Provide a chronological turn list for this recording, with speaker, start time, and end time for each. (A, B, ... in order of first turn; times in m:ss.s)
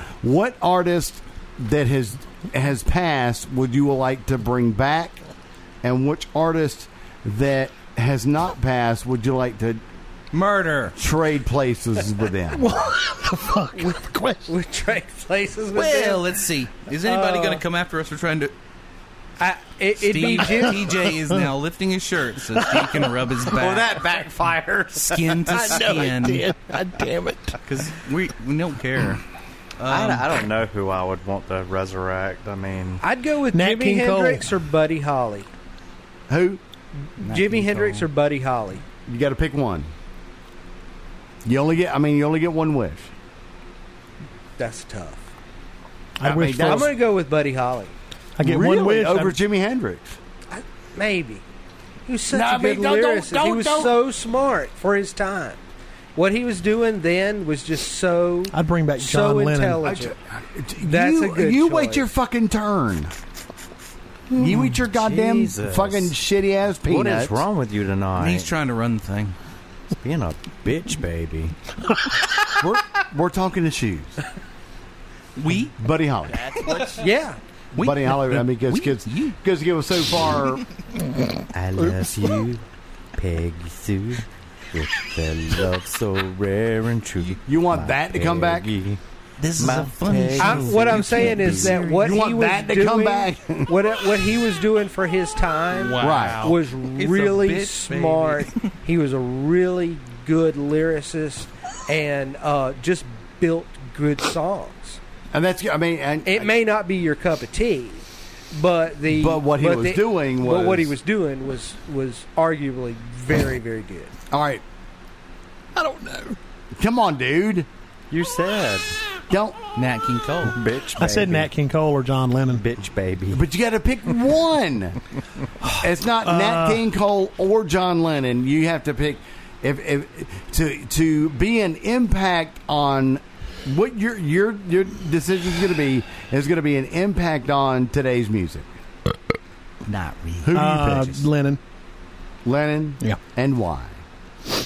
0:00.2-0:05.2 A
0:05.8-0:09.8 A
0:10.3-0:10.9 B
0:11.0-0:12.8 A
0:12.5-0:14.5 C
0:14.5-0:16.2 D
0:15.7-0:18.5 B
0:17.0-0:17.6 D
0:19.4-0:21.1 D
0:20.0-0:24.0 B
0:23.4-0:25.9 E
0:25.0-0:26.5 B
0:25.5-0:27.6 C
0:27.7-0:27.9 E
0:27.8-0:29.2 B
0:29.8-0:30.3 B
0:29.9-0:33.0 E
0:33.0-0:35.5 D
0:33.5-0:34.5 C
0:36.3-0:36.6 A
0:37.2-0:38.8 D
0:37.2-0:38.1 B
0:39.0-0:39.9 A
0:41.4-0:43.1 A
0:44.6-0:45.2 D
0:46.2-0:46.9 C
0:46.2-0:46.9 A
0:46.6-0:47.9 D
0:48.4-0:49.4 C
0:48.4-0:50.2 A
0:50.5-0:51.4 D
0:52.0-0:55.6 D
0:52.3-0:54.0 A
0:56.2-1:00.1 D
0:58.5-0:59.8 C
0:59.8-1:03.1 A
1:00.8-1:02.1 D
1:04.3-1:07.4 A
1:04.9-1:06.1 E
1:06.8-1:08.5 E
1:08.2-1:09.3 B
1:10.0-1:11.5 E
1:12.5-1:14.2 A
1:15.4-1:15.7 B
1:15.8-1:16.5 A
1:16.5-1:17.0 B
1:17.0-1:17.4 D
1:17.7-1:19.4 B
1:17.8-1:20.6 A
1:21.5-1:22.6 E
1:23.1-1:29.0 E
1:27.5-1:28.7 A
1:29.4-1:32.2 B
1:29.6-1:31.8 E
1:30.4-1:45.0 D
1:32.0-1:33.8 A
1:35.7-1:38.6 B
1:36.0-1:36.6 A
1:45.3-1:46.5 A
1:46.2-1:54.1 D
1:49.1-1:50.9 A
1:54.3-1:54.6 A
1:55.8-1:56.4 C
1:56.7-1:57.7 A
1:58.1-1:59.0 E
1:59.3-1:59.6 A
1:59.8-2:00.6 B
2:00.5-2:01.5 E
2:01.0-2:02.6 C
2:02.5-2:03.4 E
2:03.3-2:05.0 A
2:05.6-2:06.8 C
2:05.8-2:18.7 A
2:19.8-2:20.5 B
2:20.4-2:21.2 A
2:20.5-2:21.6 C
2:22.4-2:24.0 A